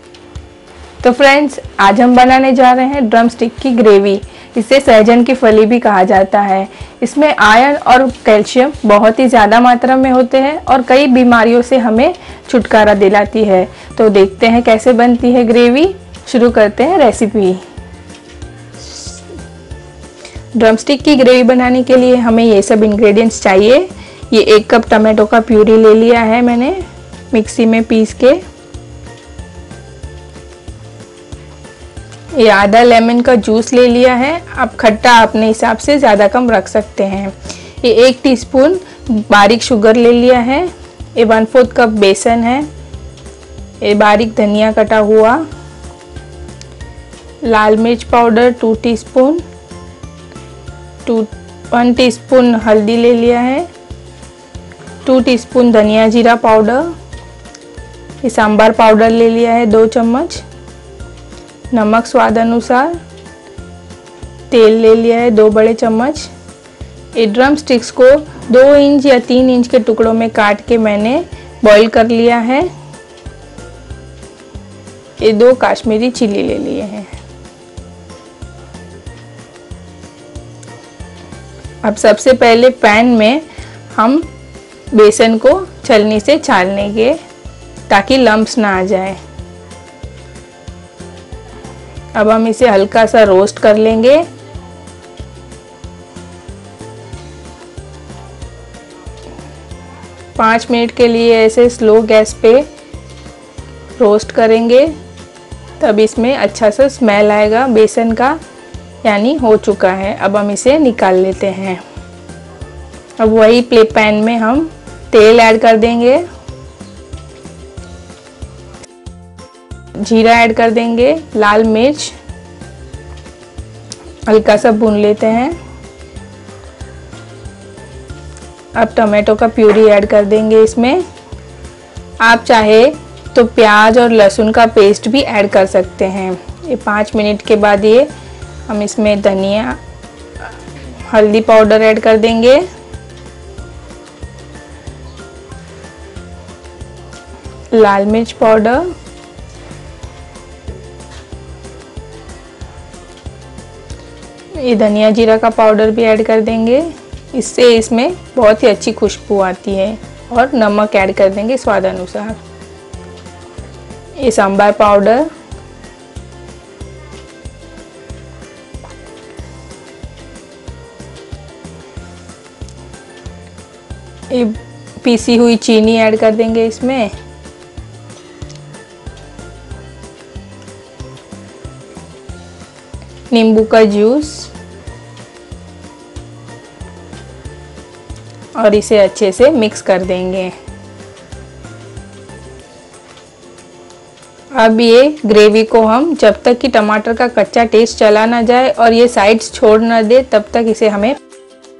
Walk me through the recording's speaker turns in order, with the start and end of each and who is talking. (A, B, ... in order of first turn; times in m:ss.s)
0:01.0-0:17.6 A
0:20.5-0:28.4 A
0:32.3-0:42.7 A
0:43.8-0:45.4 A
0:47.4-0:49.4 A
0:51.0-0:53.7 A
0:55.0-0:56.9 A
0:58.2-1:00.4 A
1:01.7-1:03.0 A
1:04.5-1:06.3 A
1:07.1-1:12.7 A
1:15.2-1:17.1 A
1:21.8-1:24.3 A
1:24.9-1:27.2 A
1:27.9-1:29.2 A
1:32.1-1:34.2 A
1:40.3-1:42.7 A
1:44.0-1:44.9 A
1:45.8-1:48.4 A
1:49.0-1:51.8 A
1:53.2-1:56.2 A
2:00.0-2:02.1 A
2:04.2-2:05.6 A
2:08.7-2:11.0 A
2:12.2-2:18.1 A
2:18.7-2:19.8 A
2:21.0-2:22.6 A
2:27.7-2:28.9 A
2:34.5-2:42.4 A
2:44.2-2:45.3 A
2:54.3-2:57.1 A
3:03.3-3:04.5 A
3:08.6-3:10.5 A
3:14.5-3:21.2 A